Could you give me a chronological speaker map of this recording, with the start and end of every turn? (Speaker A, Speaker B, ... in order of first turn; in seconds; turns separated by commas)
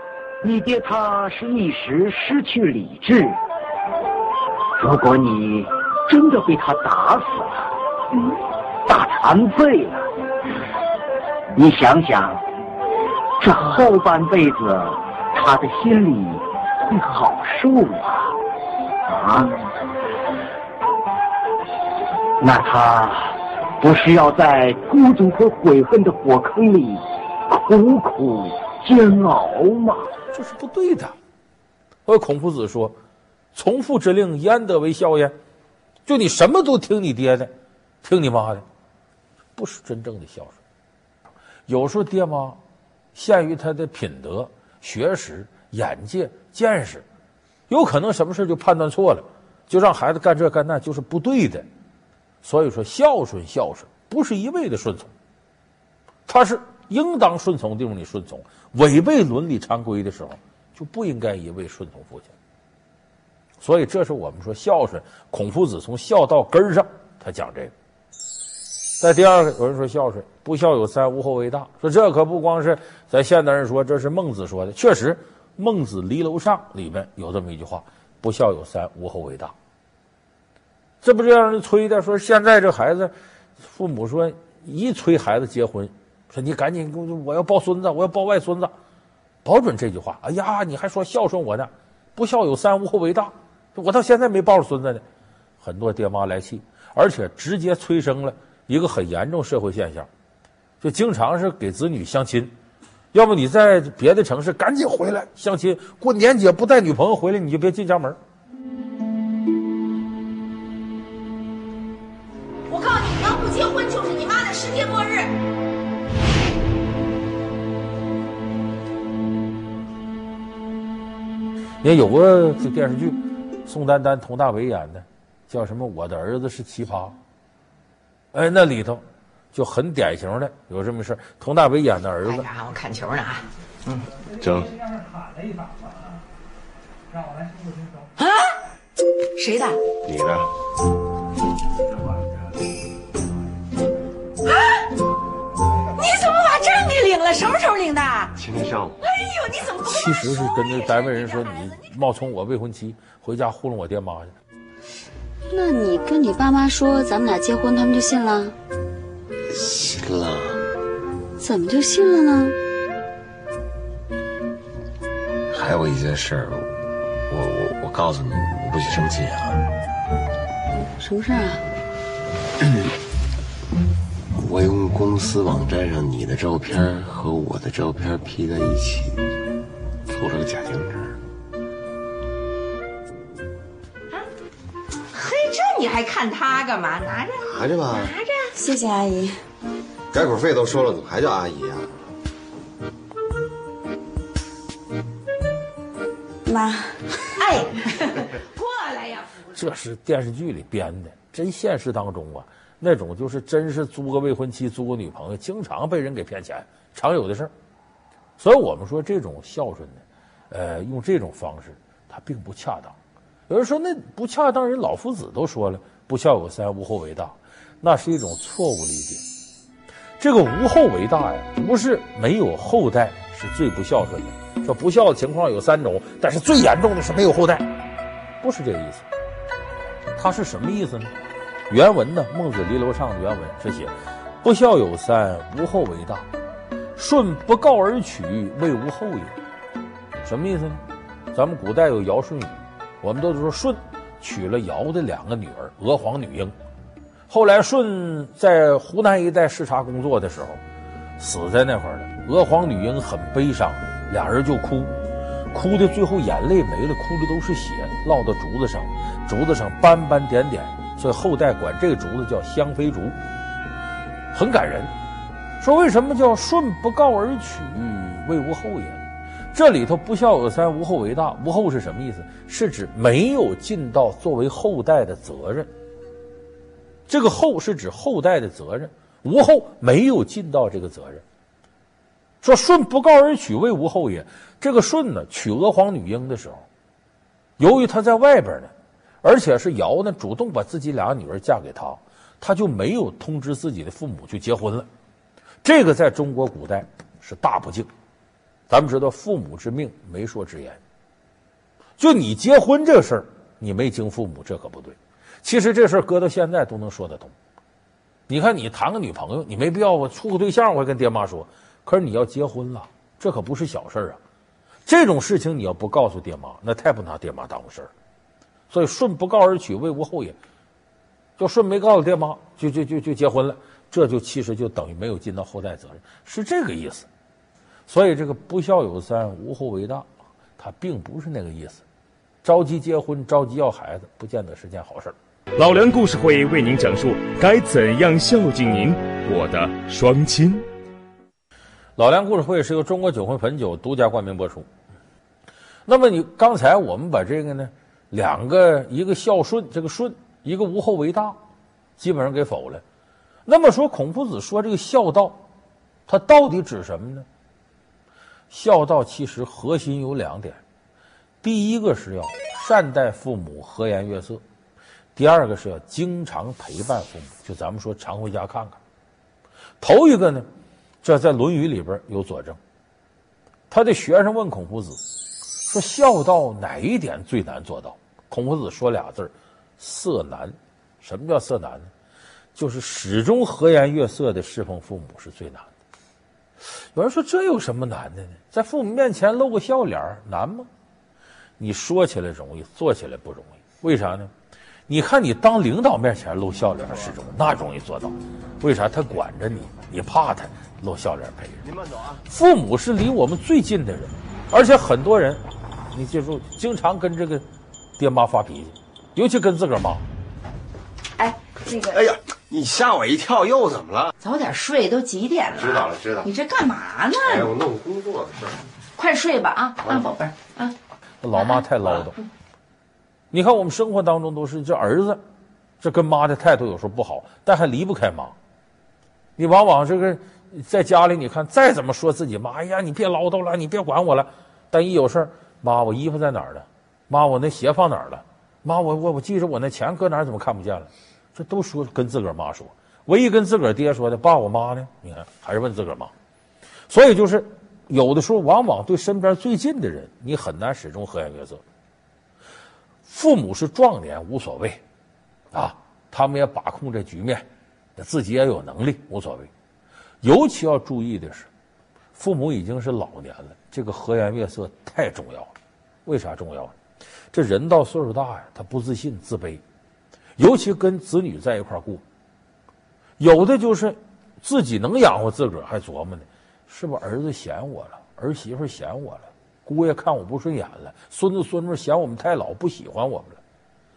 Speaker A: 0.4-3.4, Speaker A: 4.8-7.7, Speaker A: 8.8-10.1, Speaker A: 11.5-12.4, Speaker A: 13.4-18.4, Speaker A: 19.1-19.6, Speaker A: 22.4-30.1, Speaker B: 30.3-31.1, Speaker B: 32.0-33.0, Speaker B: 33.5-35.3, Speaker B: 36.0-37.5, Speaker B: 38.0-38.6, Speaker B: 39.5-40.6, Speaker B: 41.7-42.6, Speaker B: 43.1-47.0, Speaker B: 47.7-51.7, Speaker B: 52.4-55.1, Speaker B: 56.3-62.3, Speaker B: 63.6-67.7, Speaker B: 69.0-79.5, Speaker B: 81.0-88.7, Speaker B: 89.4-95.0, Speaker B: 95.6-100.1, Speaker B: 100.8-102.5, Speaker B: 103.1-108.2, Speaker C: 112.7-115.3, Speaker B: 121.8-127.2, Speaker B: 128.3-129.0, Speaker B: 129.5-132.5, Speaker C: 132.2-134.1, Speaker D: 134.3-134.8, Speaker C: 138.2-138.5, Speaker C: 139.3-139.8, Speaker D: 140.0-140.5, Speaker C: 144.4-144.8, Speaker C: 145.9-148.3, Speaker D: 148.3-148.9, Speaker C: 149.0-151.8, Speaker B: 149.8-154.3, Speaker E: 155.5-158.5, Speaker D: 159.5-160.6, Speaker E: 161.4-162.6, Speaker D: 165.5-166.7, Speaker D: 167.3-169.6, Speaker E: 171.0-171.6, Speaker D: 174.3-179.2, Speaker D: 180.1-181.2, Speaker C: 185.1-188.5, Speaker D: 187.4-188.1, Speaker E: 188.5-189.4, Speaker D: 190.1-191.9, Speaker E: 196.4-197.1, Speaker C: 197.4-199.4, Speaker B: 199.5-207.5, Speaker B: 208.4-212.9, Speaker B: 213.5-219.2, Speaker B: 220.2-227.7, Speaker B: 228.4-229.1, Speaker B: 230.2-231.1, Speaker B: 231.7-236.3, Speaker B: 236.9-239.4, Speaker B: 240.2-240.8, Speaker B: 241.3-246.5, Speaker B: 247.3-250.6, Speaker B: 251.2-254.9, Speaker B: 255.5-263.2, Speaker B: 264.3-264.9, Speaker B: 265.6-275.7, Speaker B: 277.1-281.2, Speaker B: 282.4-286.6, Speaker B: 287.6-288.7, Speaker B: 289.2-294.9, Speaker B: 295.6-297.9, Speaker B: 298.7-300.8, Speaker B: 302.0-307.3, Speaker B: 308.3-314.2, Speaker B: 314.9-317.9, Speaker B: 318.7-320.4, Speaker B: 321.4-327.1, Speaker B: 327.9-330.1, Speaker B: 330.6-331.8, Speaker B: 332.4-335.1, Speaker F: 335.6-340.6, Speaker B: 342.0-344.7, Speaker B: 345.9-351.4, Speaker B: 352.0-352.8, Speaker B: 353.4-355.4, Speaker B: 356.1-357.3, Speaker B: 358.5-360.6, Speaker B: 361.4-364.4, Speaker B: 365.1-368.8, Speaker B: 369.8-370.5, Speaker B: 371.0-372.6, Speaker B: 373.7-375.0, Speaker B: 375.7-381.9, Speaker B: 382.5-385.7, Speaker B: 386.9-390.7, Speaker B: 391.6-394.3, Speaker B: 394.9-401.6, Speaker B: 402.2-407.4, Speaker B: 408.0-410.0, Speaker C: 411.2-412.0, Speaker D: 411.9-414.1, Speaker C: 414.2-417.5, Speaker D: 415.6-416.3, Speaker D: 417.2-418.6, Speaker C: 418.9-420.7, Speaker B: 421.2-422.2, Speaker B: 423.3-425.2, Speaker B: 425.8-428.3, Speaker B: 429.4-446.1, Speaker B: 446.9-451.6, Speaker B: 453.1-454.8, Speaker B: 455.5-457.4, Speaker B: 457.9-459.5, Speaker B: 460.2-461.5, Speaker B: 462.1-465.5, Speaker B: 466.0-466.7, Speaker B: 467.3-469.6, Speaker B: 470.4-472.0, Speaker B: 473.2-483.4